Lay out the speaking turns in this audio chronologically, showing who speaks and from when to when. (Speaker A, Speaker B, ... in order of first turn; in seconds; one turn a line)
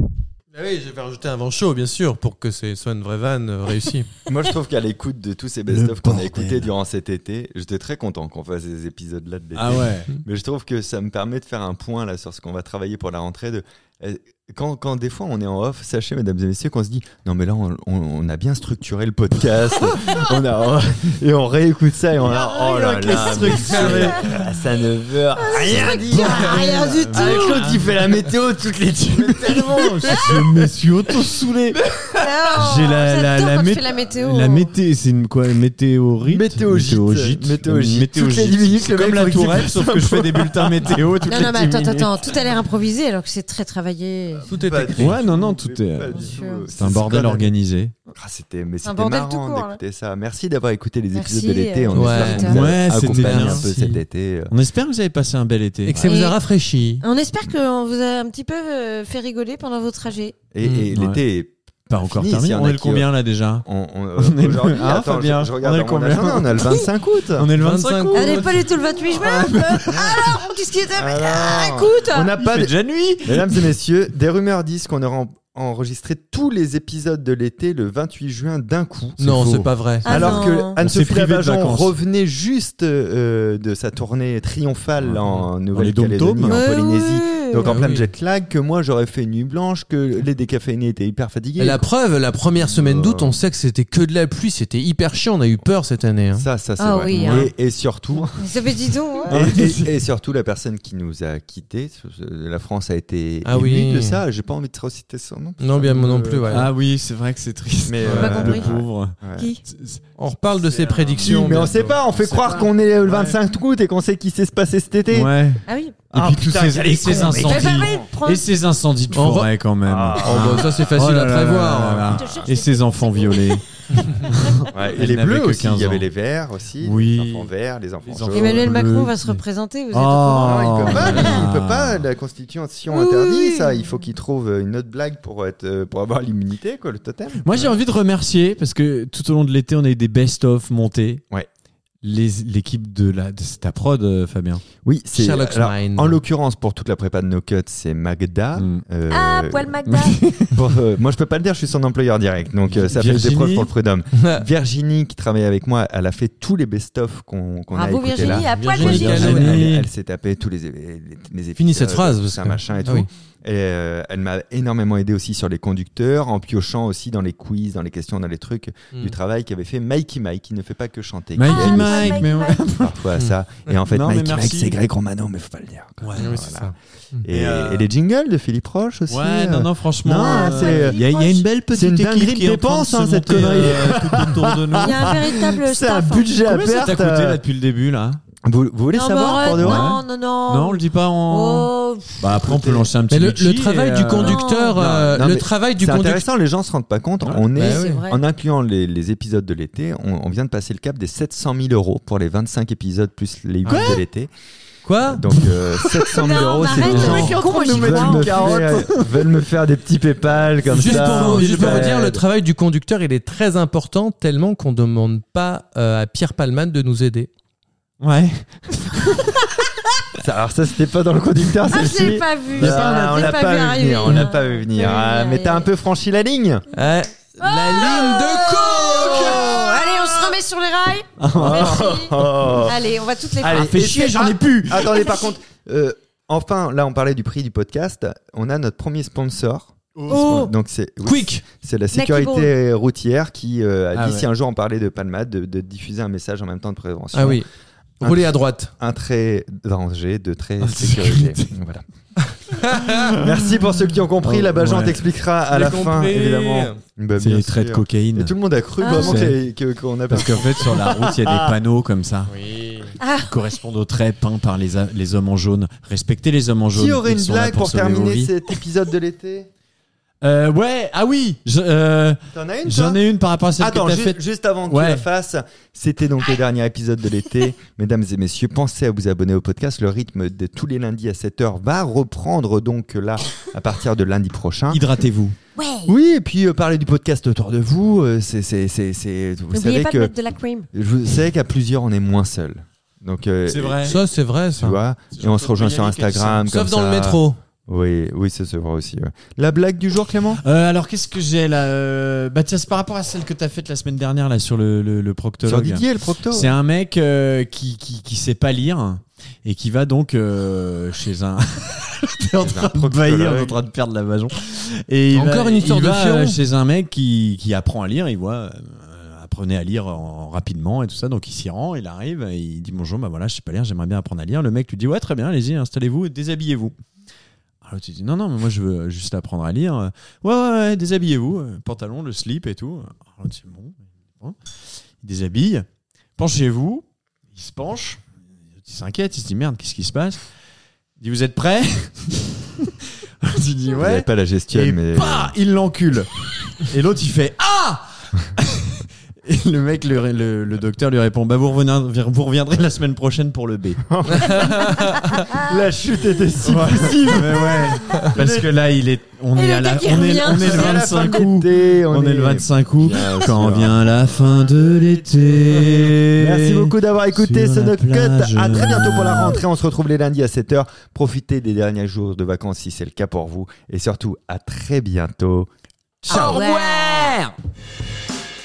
Speaker A: 0.5-4.1
Speaker B: 4.3-30.7
Speaker C: 5.7-6.7
Speaker C: 9.6-10.2
Speaker C: 22.2-24.4
Speaker D: 22.3-24.3
Speaker A: 23.7-24.1
Speaker D: 25.4-27.7
Speaker C: 25.9-28.0
Speaker C: 29.1-31.8
Speaker D: 32.2-34.7
Speaker C: 32.5-42.3
Speaker B: 36.2-41.0
Speaker D: 41.2-44.5
Speaker B: 44.4-47.5
Speaker A: 44.5-45.2
Speaker C: 45.0-47.9
Speaker D: 46.0-46.7
Speaker B: 48.1-54.5
Speaker D: 48.8-49.8
Speaker D: 51.1-52.6
Speaker A: 51.9-52.5
Speaker C: 52.3-53.7
Speaker A: 53.1-54.0
Speaker C: 54.5-56.1
Speaker A: 55.8-57.0
Speaker D: 55.9-56.4
Speaker D: 57.0-60.3
Speaker B: 60.5-63.1
Speaker C: 60.6-61.2
Speaker C: 61.9-70.3
Speaker B: 63.6-67.5
Speaker A: 67.6-68.6
Speaker D: 68.1-72.3
Speaker B: 69.9-70.4
Speaker B: 70.9-91.9
Speaker C: 72.4-73.6
Speaker A: 79.2-80.1
Speaker D: 80.0-80.8
Speaker C: 80.1-81.9
Speaker C: 85.0-86.6
Speaker D: 86.4-87.8
Speaker A: 87.6-88.1
Speaker A: 91.6-96.5
Speaker B: 92.6-93.5
Speaker B: 96.4-98.7
Speaker D: 96.8-97.5
Speaker D: 98.4-99.4
Speaker B: 99.3-106.7
Speaker C: 99.3-99.9
Speaker A: 103.4-104.2
Speaker A: 105.6-106.7
Speaker C: 106.5-110.0
Speaker B: 107.8-109.5
Speaker D: 108.0-108.7
Speaker A: 110.2-112.4
Speaker C: 110.6-113.4
Speaker B: 111.2-115.3
Speaker C: 115.1-126.1
Speaker D: 115.7-116.0
Speaker B: 116.1-118.1
Speaker D: 117.4-118.5
Speaker A: 119.1-119.5
Speaker B: 119.8-120.6
Speaker A: 120.2-122.2
Speaker D: 122.0-124.7
Speaker B: 124.7-128.7
Speaker C: 126.8-127.5
Speaker C: 128.0-132.1
Speaker D: 128.3-131.5
Speaker B: 130.4-137.5
Speaker D: 132.9-133.9
Speaker C: 137.4-141.2
Speaker C: 142.0-144.6
Speaker B: 144.8-149.8
Speaker A: 145.1-146.2
Speaker C: 148.6-148.8
Speaker D: 149.1-150.2
Speaker C: 149.9-150.6
Speaker B: 150.5-176.7
Speaker C: 152.7-153.7
Speaker A: 154.1-154.4
Speaker D: 157.7-159.6
Speaker A: 158.2-159.7
Speaker C: 158.8-159.9
Speaker A: 161.6-163.1
Speaker A: 168.9-169.2
Speaker C: 171.3-172.9
Speaker D: 171.4-172.7
Speaker A: 173.2-173.8
Speaker C: 173.9-174.8
Speaker C: 176.0-176.3
Speaker A: 176.2-177.2
Speaker B: 177.2-181.0
Speaker C: 177.3-177.9
Speaker C: 179.1-185.2
Speaker D: 180.2-181.5
Speaker B: 181.6-187.4
Speaker D: 184.8-186.6
Speaker C: 186.4-188.2
Speaker B: 188.4-189.9
Speaker D: 188.9-192.3
Speaker C: 189.5-195.1
Speaker B: 192.3-192.9
Speaker A: 193.1-196.2
Speaker D: 194.2-194.9
Speaker B: 195.1-204.3
Speaker C: 197.2-197.5
Speaker A: 197.6-198.0
Speaker D: 197.6-198.2
Speaker A: 203.6-204.0
Speaker C: 203.7-204.0
Speaker A: 204.8-205.2
Speaker B: 205.1-212.2
Speaker C: 205.4-209.3
Speaker D: 206.2-208.7
Speaker C: 210.7-211.8
Speaker A: 210.7-217.3
Speaker C: 218.0-219.3
Speaker B: 220.2-226.7
Speaker D: 221.7-225.7
Speaker C: 222.6-223.2
Speaker A: 226.7-229.4
Speaker D: 227.4-233.8
Speaker C: 229.0-229.4
Speaker B: 229.9-230.3
Speaker C: 231.2-231.9
Speaker B: 231.3-232.8
Speaker C: 233.4-235.1
Speaker B: 233.4-247.4
Speaker D: 234.7-235.4
Speaker C: 239.9-240.3
Speaker D: 240.1-240.5
Speaker A: 241.0-241.4
Speaker D: 241.9-242.5
Speaker C: 243.9-244.3
Speaker A: 247.1-247.5
Speaker A: 248.0-248.7
Speaker B: 248.0-251.8
Speaker C: 250.6-251.5
Speaker A: 252.5-252.9
Speaker C: 252.9-253.3
Speaker B: 253.2-261.5
Speaker C: 254.2-255.0
Speaker A: 255.5-256.8
Speaker C: 257.2-258.3
Speaker D: 258.8-259.3
Speaker C: 258.9-259.4
Speaker C: 260.1-262.3
Speaker A: 262.3-262.9
Speaker D: 263.0-263.4
Speaker C: 263.2-268.3
Speaker B: 266.7-269.5
Speaker C: 270.2-275.1
Speaker B: 272.3-273.0
Speaker B: 273.6-284.9
Speaker C: 284.7-285.4
Speaker D: 285.6-285.9
Speaker B: 285.9-290.1
Speaker D: 289.5-290.7
Speaker B: 290.7-294.0
Speaker C: 293.4-294.0
Speaker A: 293.9-294.8
Speaker B: 294.6-300.4
Speaker C: 295.1-296.5
Speaker A: 296.5-297.4
Speaker C: 300.4-326.7
Speaker B: 305.4-306.6
Speaker B: 312.4-313.6
Speaker A: 315.1-316.4
Speaker C: 327.6-334.4
Speaker C: 335.0-335.6
Speaker C: 336.2-338.0
Speaker C: 338.6-340.2
Speaker C: 341.0-342.7
Speaker C: 343.2-353.8
Speaker B: 343.8-345.3
Speaker B: 353.9-354.6
Speaker A: 354.1-355.1
Speaker B: 355.4-358.5
Speaker C: 356.4-369.4
Speaker D: 359.4-361.0
Speaker B: 360.2-363.9
Speaker B: 366.2-375.5
Speaker C: 376.0-377.3
Speaker D: 376.1-377.1